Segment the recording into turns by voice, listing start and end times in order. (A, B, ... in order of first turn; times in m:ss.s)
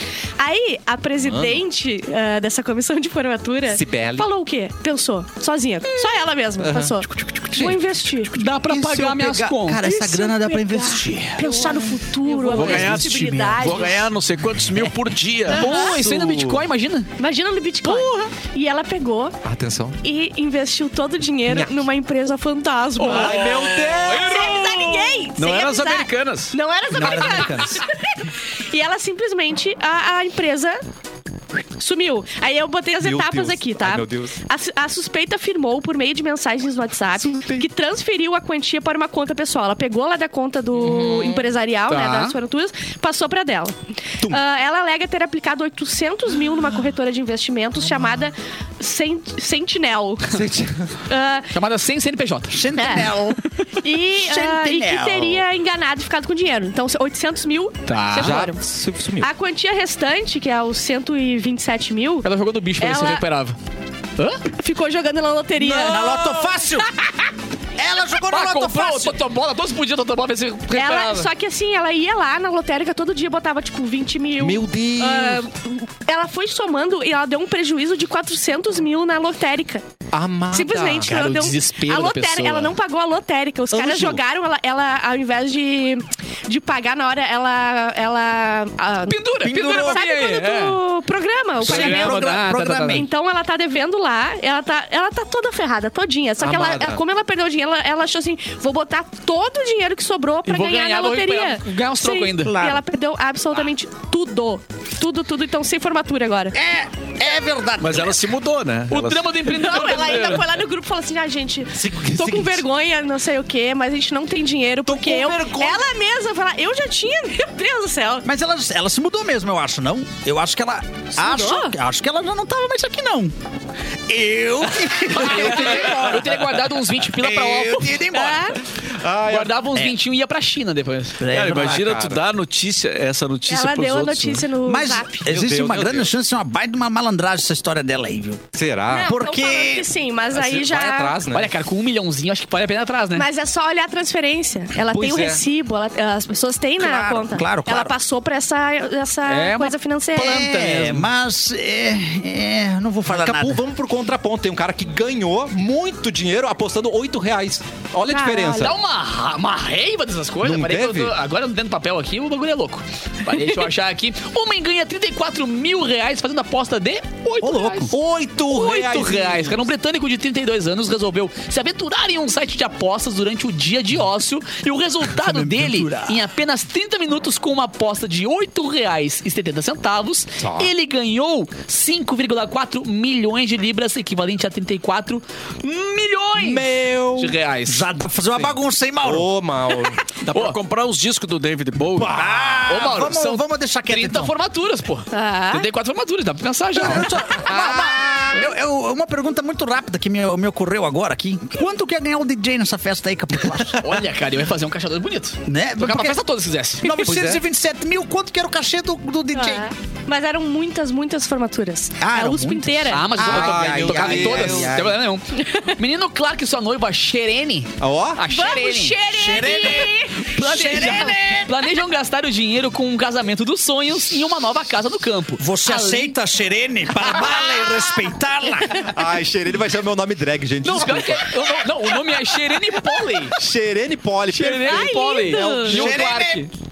0:00.4-0:08.3 A
0:01.2-0:01.6 B
0:03.7-0:04.3 B
0:06.6-0:07.8 B
0:08.3-0:09.9 C
0:08.6-0:11.8 D
0:09.8-0:14.1 A
0:12.3-0:13.9 D
0:12.5-0:15.9 E
0:15.5-0:17.1 C
0:15.5-0:16.0 A
0:15.9-0:16.6 B
0:17.2-0:19.4 A
0:17.8-0:18.3 C
0:19.4-0:20.0 B
0:20.0-0:30.8 A
0:21.5-0:21.8 B
0:23.0-0:24.6 B
0:23.0-0:26.6 E
0:23.1-0:23.6 C
0:26.9-0:27.8 D
0:31.8-0:50.4 A
0:33.0-0:34.4 B
0:37.3-0:37.6 B
0:40.8-0:41.5 B
0:41.9-0:42.4 C
0:50.3-0:50.9 B
0:51.1-0:51.5 A
0:51.5-0:52.6 C
0:52.5-0:53.4 D
0:52.8-0:53.2 A
0:53.8-0:58.6 A
0:54.0-0:55.4 D
0:57.9-0:58.4 C
0:58.2-0:59.3 B
0:59.2-1:02.3 A
1:02.2-1:03.6 C
1:02.8-1:03.2 A
1:04.2-1:04.4 C
1:04.5-1:06.3 A
1:05.6-1:06.9 D
1:06.0-1:06.3 B
1:07.8-1:09.2 D
1:08.3-1:11.3 C
1:10.7-1:19.8 A
1:14.4-1:15.4 B
1:20.1-1:21.1 B
1:20.5-1:46.6 A
1:21.0-1:22.7 C
1:23.7-1:24.2 B
1:29.0-1:30.8 C
1:29.4-1:30.0 D
1:31.6-1:33.1 C
1:31.6-1:33.1 D
1:36.4-1:37.0 B
1:40.5-1:42.7 C
1:42.5-1:42.8 D
1:46.5-1:48.2 D
1:47.8-1:50.0 E
1:48.9-1:50.5 C
1:49.4-1:58.3 A
1:51.8-1:52.6 B
1:54.9-1:55.8 D
1:58.2-2:03.3 D
2:01.2-2:01.8 A
2:04.1-2:08.6 D
2:05.1-2:07.9 C
2:08.0-2:08.6 A
2:08.8-2:09.7 B
2:09.3-2:11.2 C
2:11.2-2:11.9 D
2:11.3-2:14.4 E
2:11.5-2:12.2 B
2:13.5-2:15.2 A
2:14.6-2:18.5 D
2:15.3-2:16.1 B
2:18.6-2:19.1 B
2:18.9-2:21.2 A
2:19.0-2:19.9 D
2:20.3-2:21.5 B
2:21.3-2:23.3 C
2:23.2-2:30.4 A
2:24.9-2:25.4 B
2:26.8-2:27.9 D
2:29.3-2:31.1 C
2:30.2-2:33.6 D
2:33.1-2:38.8 B
2:38.1-2:38.7 A
2:38.5-3:06.6 C
2:40.4-2:41.2 B
2:47.4-2:49.0 D
2:48.2-2:49.6 B
2:55.1-2:56.2 D
3:00.4-3:00.7 B
3:06.4-3:07.4 B
3:07.2-3:07.9 C
3:07.7-3:09.3 D
3:09.0-3:10.1 B
3:10.2-3:12.2 E
3:10.3-3:10.6 C
3:12.0-3:12.6 B
3:12.0-3:14.4 D
3:12.3-3:17.8 C
3:15.1-3:15.7 A
3:16.8-3:23.8 D
3:23.8-3:27.0 C
3:25.5-3:26.2 D
3:26.8-3:29.7 D
3:26.8-3:27.4 B
3:29.3-3:33.1 A
3:32.0-3:35.0 D
3:32.9-3:39.4 C
3:33.2-3:34.8 B
3:35.4-3:35.7 A
3:37.8-3:38.2 B
3:38.3-3:41.1 A
3:39.1-3:41.6 D
3:40.2-3:46.1 C
3:45.4-3:48.9 D
3:48.9-3:51.3 B
3:50.6-3:53.4 C
3:53.3-3:55.0 B
3:54.3-3:56.5 C
3:54.6-3:56.0 A
3:55.3-3:56.5 D